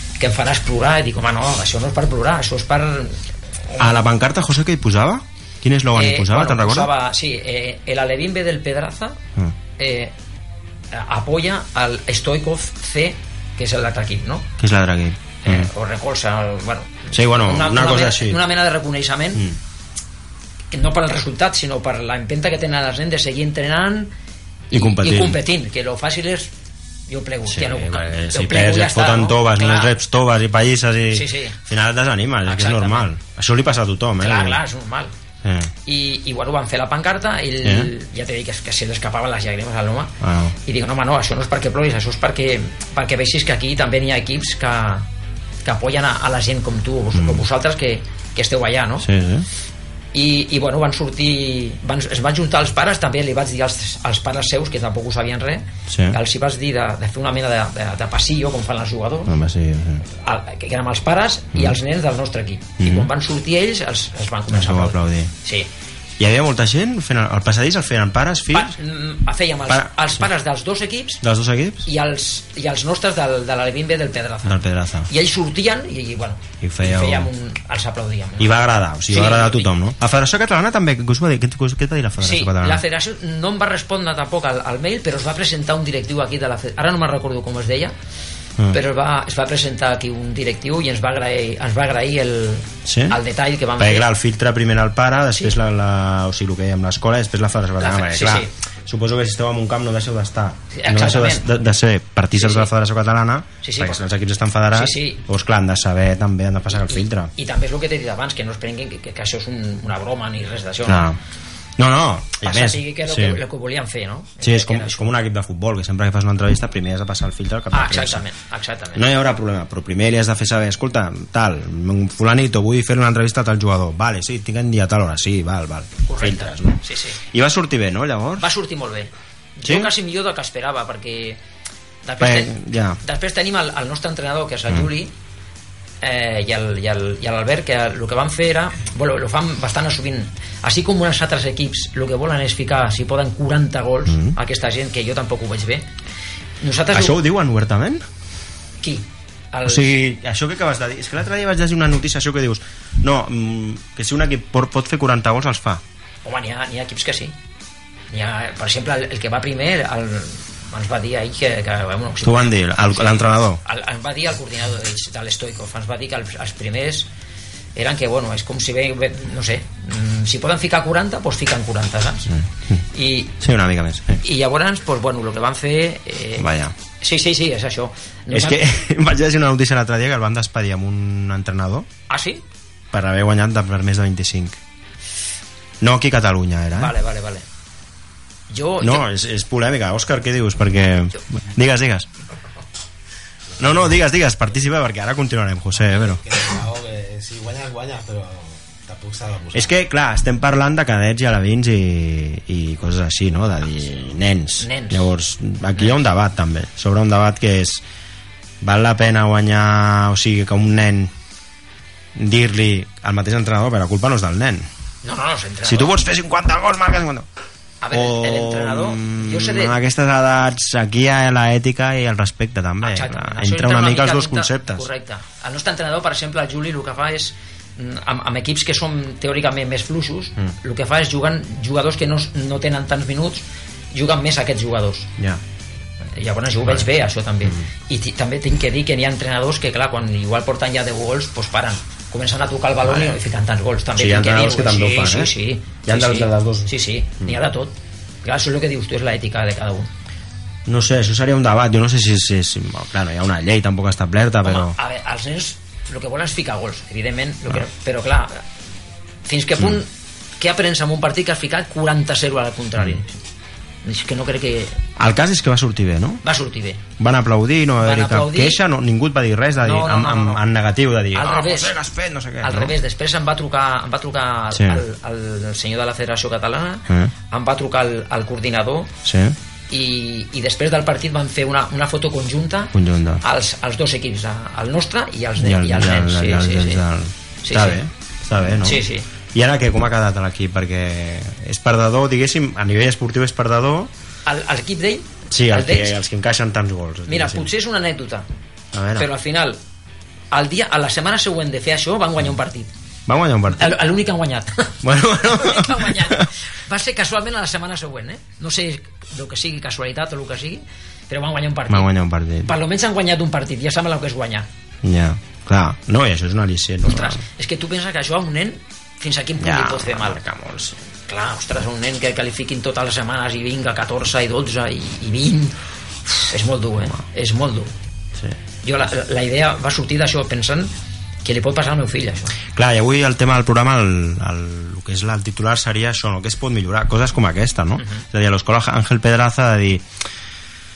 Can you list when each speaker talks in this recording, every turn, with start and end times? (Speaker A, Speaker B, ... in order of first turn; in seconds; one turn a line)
Speaker A: 0.2-4.0
Speaker B: 3.8-6.9
Speaker A: 5.9-9.2
Speaker A: 9.8-10.1
Speaker A: 10.9-14.5
Speaker B: 14.6-15.7
Speaker A: 15.4-19.4
Speaker B: 17.1-18.4
Speaker A: 20.7-24.1
Speaker A: 24.7-26.5
Speaker B: 24.7-25.4
Speaker A: 27.1-29.9
Speaker B: 27.5-34.6
Speaker A: 31.1-31.6
Speaker A: 32.5-33.1
Speaker A: 34.2-35.1
Speaker B: 35.4-35.7
Speaker A: 35.9-45.1
Speaker B: 37.6-37.9
Speaker B: 40.2-40.5
Speaker A: 45.6-49.1
Speaker B: 47.1-47.4
Speaker B: 49.0-49.5
Speaker A: 50.1-59.4
Speaker B: 55.9-56.2
Speaker B: 59.3-60.0
Speaker A: 60.1-65.7
Speaker B: 62.8-63.1
Speaker B: 64.5-65.3
Speaker B: 66.2-68.8
Speaker A: 68.5-71.2
Speaker B: 69.7-70.2
Speaker B: 71.2-71.9
Speaker A: 71.8-79.7
Speaker B: 74.4-75.1
Speaker B: 76.6-77.3
Speaker B: 78.4-82.8
Speaker A: 82.2-87.9
Speaker A: 88.7-94.1
Speaker B: 92.8-93.2
Speaker B: 93.8-107.3
Speaker A: 97.8-98.5
Speaker A: 100.7-101.5
Speaker A: 102.3-102.7
Speaker A: 103.6-104.0
Speaker A: 104.7-105.2
Speaker A: 106.7-111.1
Speaker B: 110.8-111.2
Speaker B: 111.8-113.4
Speaker A: 112.4-115.1
Speaker B: 114.4-118.2
Speaker A: 117.7-119.0
Speaker B: 118.9-128.5
Speaker A: 126.0-127.2
Speaker A: 128.4-131.4
Speaker B: 129.6-129.9
Speaker A: 132.0-135.1
Speaker B: 132.2-133.0
Speaker A: 136.0-145.9
Speaker B: 144.1-144.4
Speaker A: 146.6-147.2
Speaker B: 146.9-148.0
Speaker A: 148.8-149.9
Speaker B: 149.6-155.8
Speaker A: 156.2-157.3
Speaker A: 158.1-167.1
Speaker B: 162.2-163.6
Speaker A: 167.7-172.3
Speaker B: 172.3-172.8
Speaker A: 172.9-173.3
Speaker B: 173.4-174.2
Speaker A: 174.2-176.5
Speaker B: 176.4-176.7
Speaker A: 177.0-178.6
Speaker B: 178.3-181.9
Speaker A: 182.1-182.4
Speaker B: 182.9-184.6
Speaker B: 185.8-186.9
Speaker A: 186.8-187.4
Speaker A: 188.5-189.1
Speaker B: 188.8-192.1
Speaker B: 193.6-196.2
Speaker C: 195.9-199.7
Speaker B: 199.5-207.8
Speaker A: 204.6-205.1
Speaker B: 208.6-211.1
Speaker B: 212.1-214.7
Speaker A: 215.0-216.0
Speaker B: 215.6-217.3
Speaker A: 217.8-219.8
Speaker B: 217.9-224.9
Speaker A: 222.8-235.1
Speaker A: 236.2-247.7
Speaker B: 242.8-243.2
Speaker B: 243.9-245.3
Speaker B: 245.8-247.3
Speaker A: 248.2-249.9
Speaker B: 250.7-254.8
Speaker A: 254.4-258.4
Speaker A: 259.2-263.2
Speaker A: 263.8-264.8
Speaker B: 265.0-266.2
Speaker A: 266.2-266.8
Speaker B: 267.0-272.7
Speaker A: 267.8-268.6
Speaker A: 269.6-270.4
Speaker A: 271.1-271.7
Speaker A: 272.4-278.9
Speaker B: 274.5-274.8
Speaker B: 276.9-277.1
Speaker B: 279.0-279.4
Speaker A: 279.7-286.8
Speaker B: 282.7-283.2
Speaker B: 285.4-293.9
Speaker A: 287.4-287.8
Speaker A: 288.6-289.1
Speaker A: 294.2-295.9
Speaker B: 295.3-297.5
Speaker A: 297.1-298.2
Speaker B: 298.7-299.1
Speaker A: 298.9-299.6
Speaker A: 300.3-302.7
Speaker B: 303.1-303.8
Speaker A: 303.5-311.9
Speaker B: 304.8-306.3
Speaker B: 311.7-312.5
Speaker A: 312.4-314.5
Speaker B: 314.8-317.2
Speaker A: 316.8-320.2
Speaker B: 319.4-320.8
Speaker A: 321.1-327.7
Speaker A: 328.6-330.7
Speaker A: 331.2-332.3
Speaker B: 332.5-339.8